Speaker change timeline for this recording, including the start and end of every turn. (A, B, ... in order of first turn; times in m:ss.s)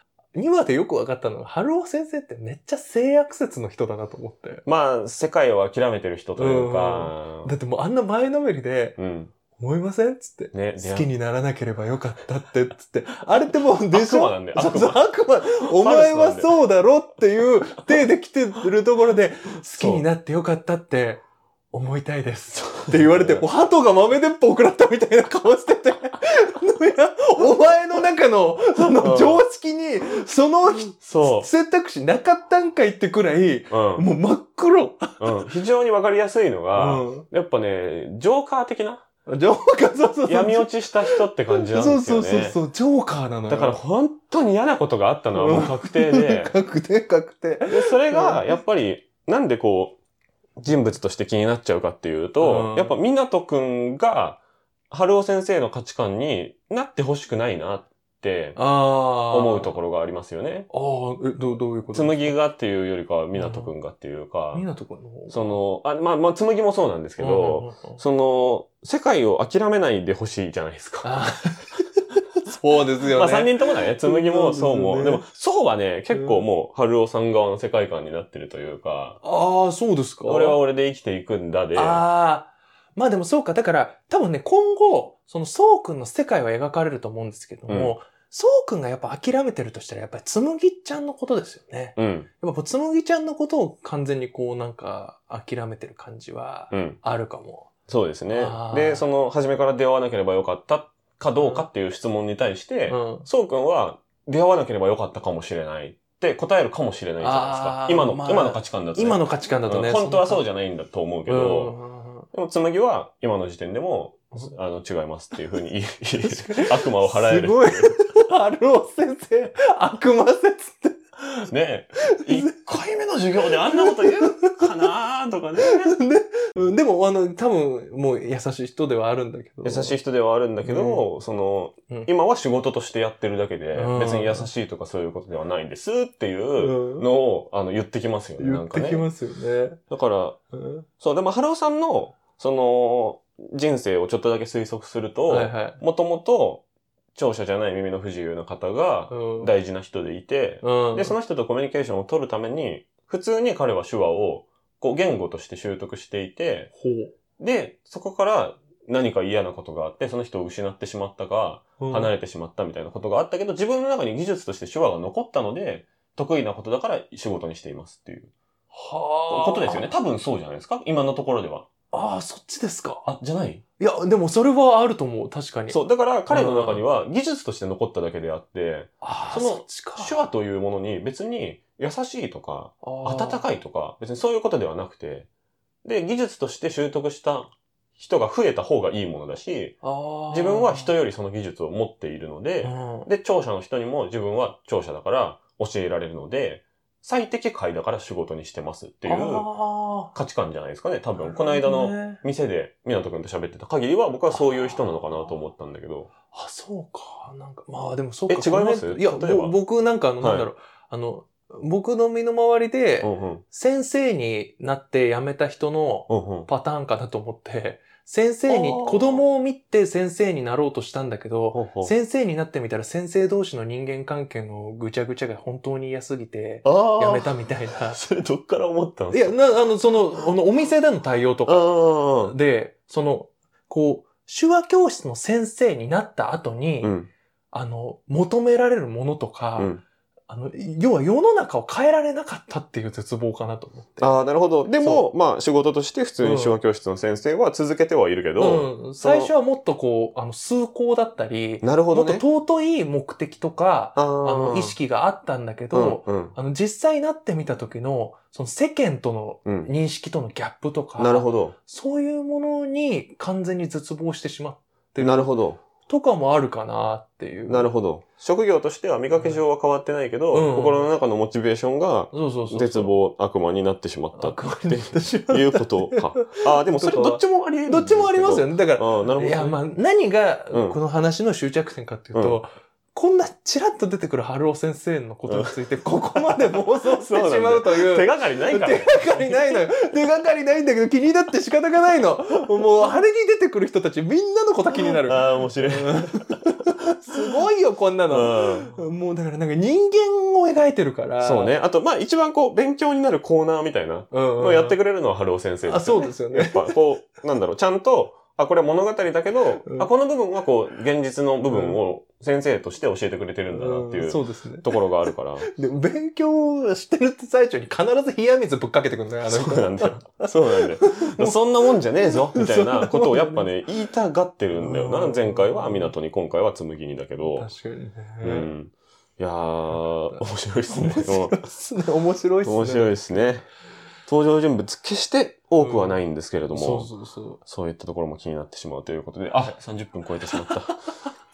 0:00.3-0:04.6 A
0:04.6-0:07.5 B
0:06.4-0:09.0 A
0:09.0-0:09.3 B
0:09.5-0:35.5 A
0:10.5-0:11.1 B
0:13.9-0:15.0 B
0:15.6-0:16.6 B
0:19.7-0:20.0 B
0:22.9-0:23.4 B
0:28.9-0:29.4 B
0:30.9-0:31.5 B
0:33.7-0:34.1 B
0:35.2-0:39.0 B
0:36.7-0:37.2 A
0:39.3-0:43.8 A
0:40.2-0:42.6 B
0:43.5-0:46.5 B
0:45.3-0:48.6 A
0:47.7-0:50.0 B
0:50.6-0:58.6 B
0:52.4-0:53.0 A
0:58.6-0:59.7 A
0:59.3-1:00.7 B
1:00.7-1:02.3 A
1:01.9-1:04.6 B
1:03.3-1:03.7 A
1:04.5-1:05.6 A
1:05.3-1:11.2 B
1:07.2-1:08.0 A
1:11.0-1:15.2 A
1:13.1-1:19.2 B
1:16.1-1:16.4 A
1:19.2-1:20.6 A
1:20.2-1:22.0 B
1:21.7-1:37.7 A
1:27.7-1:27.9 B
1:32.0-1:32.3 B
1:36.7-1:37.0 B
1:37.9-1:51.8 B
1:38.3-1:39.0 A
1:41.4-1:41.7 A
1:42.9-1:43.3 A
1:47.2-1:50.4 A
1:51.3-1:52.3 A
1:52.3-1:57.9 B
1:56.2-2:01.0 A
2:01.5-2:06.0 B
2:02.1-2:02.6 A
2:03.5-2:04.7 A
2:05.6-2:10.0 A
2:09.6-2:19.1 B
2:10.6-2:11.0 A
2:13.7-2:14.5 A
2:16.6-2:17.0 A
2:18.4-2:19.8 A
2:19.9-2:20.4 B
2:20.5-2:20.8 A
2:21.0-2:26.6 B
2:25.3-2:25.8 A
2:27.1-2:36.7 B
2:29.1-2:29.5 A
2:30.6-2:31.1 A
2:36.7-2:37.1 A
2:37.4-2:48.3 B
2:41.8-2:42.1 A
2:48.7-2:49.9 A
2:49.3-2:51.7 B
2:51.9-2:53.1 A
2:53.0-2:53.6 B
2:53.8-2:56.8 A
2:55.7-3:05.3 B
2:59.0-3:00.2 A
3:02.8-3:03.4 A
3:05.8-3:09.8 B
3:09.8-3:10.9 A
3:10.3-3:19.5 B
3:12.6-3:13.1 A
3:19.0-3:20.2 A
3:20.1-3:26.1 B
3:21.1-3:22.2 A
3:24.3-3:25.3 A
3:26.3-3:48.0 A
3:28.3-3:29.6 B
3:30.2-3:30.5 B
3:33.0-3:33.4 B
3:36.1-3:36.5 B
3:38.5-3:39.2 B
3:41.5-3:41.9 B
3:46.6-3:49.5 B
3:49.1-3:56.9 A
3:51.4-3:52.4 B
3:56.8-3:57.1 B
3:57.5-3:59.7 A
3:59.6-3:59.8 B
4:00.3-4:04.1 A
4:04.0-4:09.3 B
4:04.7-4:05.0 A
4:06.2-4:06.6 A
4:08.4-4:25.3 A
4:11.6-4:12.2 B
4:14.0-4:14.8 B
4:15.7-4:16.4 B
4:19.4-4:19.7 B
4:21.0-4:21.6 B
4:25.0-4:25.6 B
4:25.8-4:27.7 A
4:27.5-4:39.6 B
4:29.1-4:29.4 A
4:30.3-4:30.9 A
4:32.1-4:32.9 A
4:34.1-5:01.5 A
4:40.5-4:40.8 B
4:42.1-4:42.4 B
4:45.3-4:45.5 B
4:46.2-4:49.7 B
4:54.7-4:56.4 B
4:58.1-4:58.8 B
5:01.2-5:15.5 B
5:04.1-5:04.8 A
5:05.7-5:06.8 A
5:11.5-5:11.8 A
5:13.5-5:14.8 A
5:15.4-5:23.5 A
5:19.2-5:27.5 B
5:24.5-5:25.9 A
5:27.3-5:28.5 A
5:28.2-5:31.4 B
5:29.7-5:33.4 A
5:32.4-5:33.5 B
5:34.0-5:36.9 B
5:35.6-5:36.0 A
5:36.5-5:37.4 A
5:37.4-5:40.7 B